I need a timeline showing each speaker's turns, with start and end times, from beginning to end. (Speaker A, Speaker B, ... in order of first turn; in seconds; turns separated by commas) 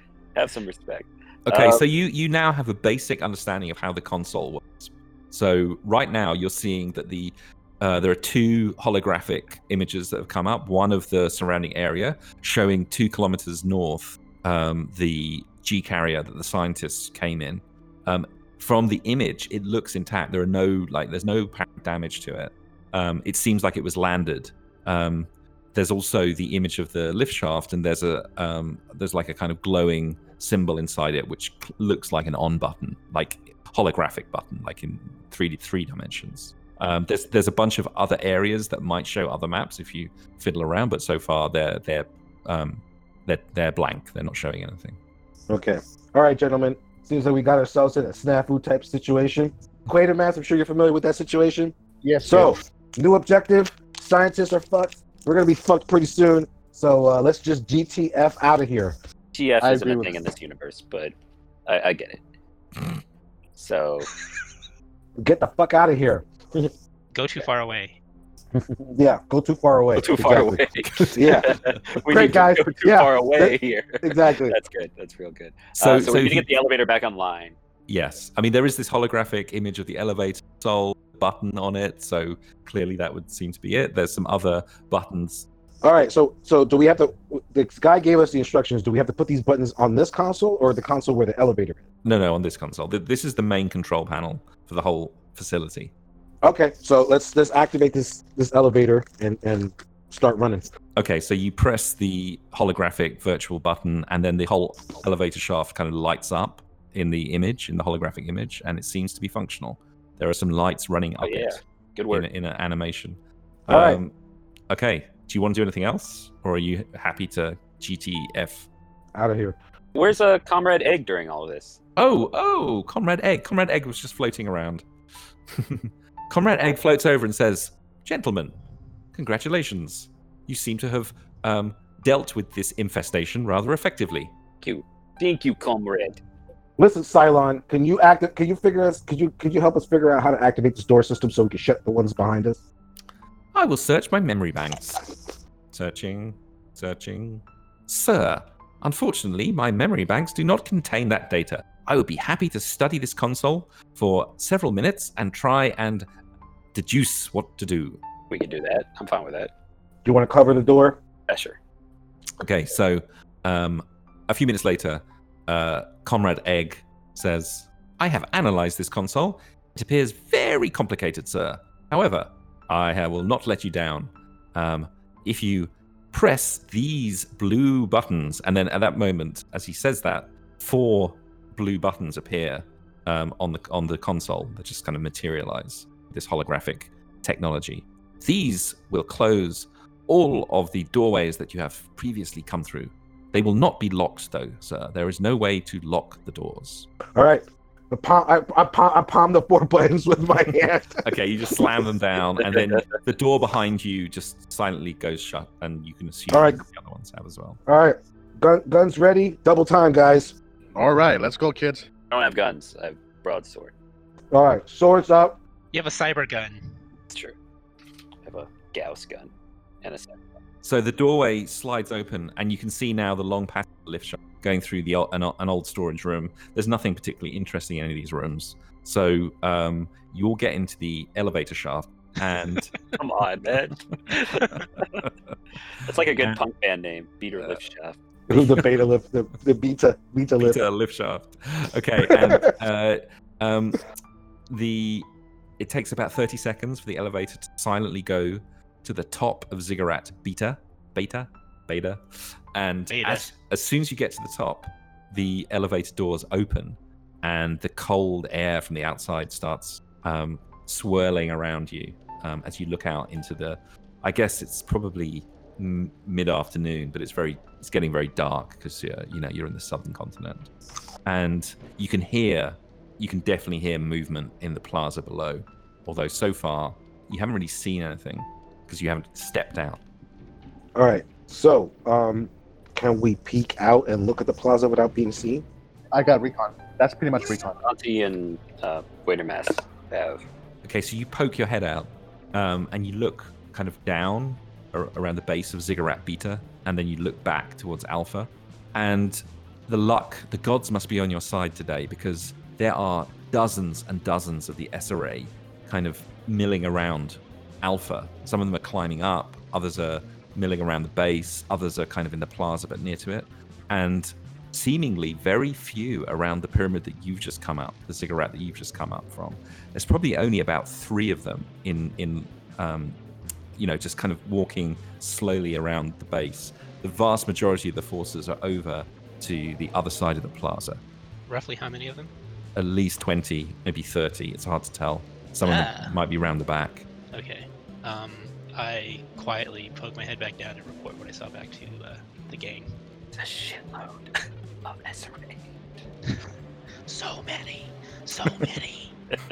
Speaker A: 0.3-1.8, Speaker B: 1.5-45.0, Speaker C: 45.5-51.7, Speaker D: 52.0-52.6, Speaker C: 52.2-59.0, Speaker A: 59.3-61.1, Speaker D: 59.6-60.2, Speaker A: 61.7-62.2, Speaker A: 63.5-64.1, Speaker C: 65.2-66.7, Speaker E: 67.1-68.0, Speaker C: 68.5-71.5, Speaker A: 70.0-77.5, Speaker B: 70.8-71.2, Speaker C: 72.0-74.6, Speaker B: 75.8-76.5, Speaker B: 77.9-85.5, Speaker C: 85.8-91.8, Speaker B: 92.0-95.9, Speaker C: 96.4-100.7, Speaker B: 101.0-114.1, Speaker A: 111.2-112.2, Speaker C: 113.7-114.0, Speaker B: 114.7-118.7, Speaker C: 119.1-119.6, Speaker A: 119.9-121.8, Speaker B: 122.0-124.8, Speaker B: 125.5-128.6, Speaker B: 129.1-134.3, Speaker A: 134.6-136.2, Speaker C: 136.8-142.6, Speaker B: 143.5-145.1, Speaker B: 145.7-156.1, Speaker B: 156.7-158.0, Speaker A: 158.3-159.5, Speaker C: 160.0-161.0, Speaker A: 161.3-161.6, Speaker B: 162.4-196.9, Speaker C: 197.1-201.0, Speaker B: 201.0-207.6, Speaker C: 206.3-206.6, Speaker C: 207.7-210.3, Speaker D: 210.7-211.8, Speaker A: 212.1-213.7, Speaker C: 214.3-215.4, Speaker E: 215.7-216.8, Speaker A: 218.2-219.3, Speaker A: 219.8-220.2, Speaker B: 220.6-232.8, Speaker A: 232.9-235.0, Speaker A: 235.7-238.0, Speaker C: 238.3-240.6, Speaker B: 238.3-238.7, Speaker B: 240.4-243.9, Speaker C: 242.0-242.5, Speaker B: 244.5-245.1, Speaker B: 245.6-252.0, Speaker B: 252.5-270.5, Speaker E: 252.9-253.3, Speaker B: 271.1-279.8, Speaker C: 280.8-285.4, Speaker D: 285.9-287.6, Speaker A: 287.6-290.2, Speaker B: 290.6-323.0, Speaker B: 323.6-330.8, Speaker E: 331.3-332.1, Speaker B: 332.6-336.9, Speaker E: 335.4-335.9, Speaker E: 337.1-342.7, Speaker A: 343.1-345.5, Speaker E: 346.9-348.9